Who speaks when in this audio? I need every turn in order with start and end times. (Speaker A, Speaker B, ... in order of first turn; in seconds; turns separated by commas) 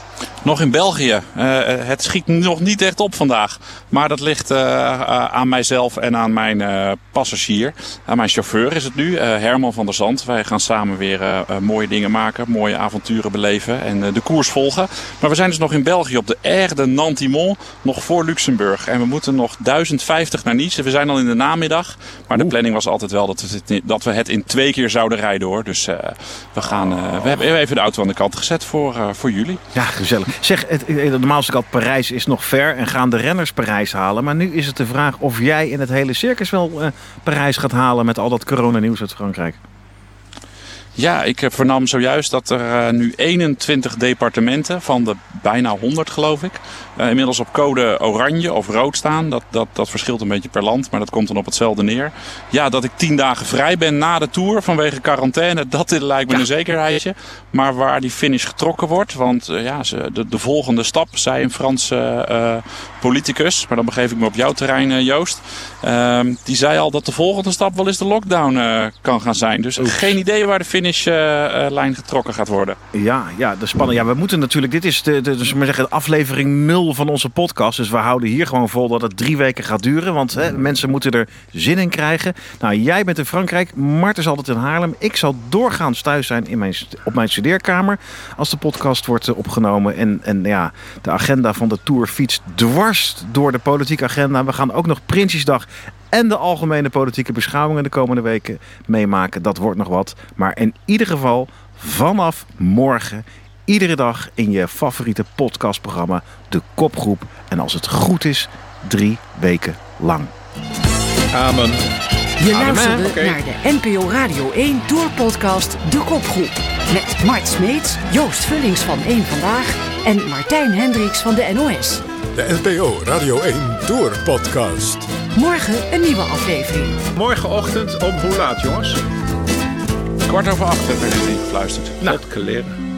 Speaker A: 0.4-29.6, Speaker B: 29.8-39.6, Speaker A: 41.0-72.8, Speaker B: 69.8-70.2, Speaker B: 72.9-110.3, Speaker C: 111.3-111.9, Speaker D: 112.4-122.0, Speaker C: 112.5-113.4, Speaker E: 122.3-125.1, Speaker D: 125.3-127.0, Speaker C: 127.1-129.0, Speaker A: 130.2-132.2, Speaker C: 132.0-132.8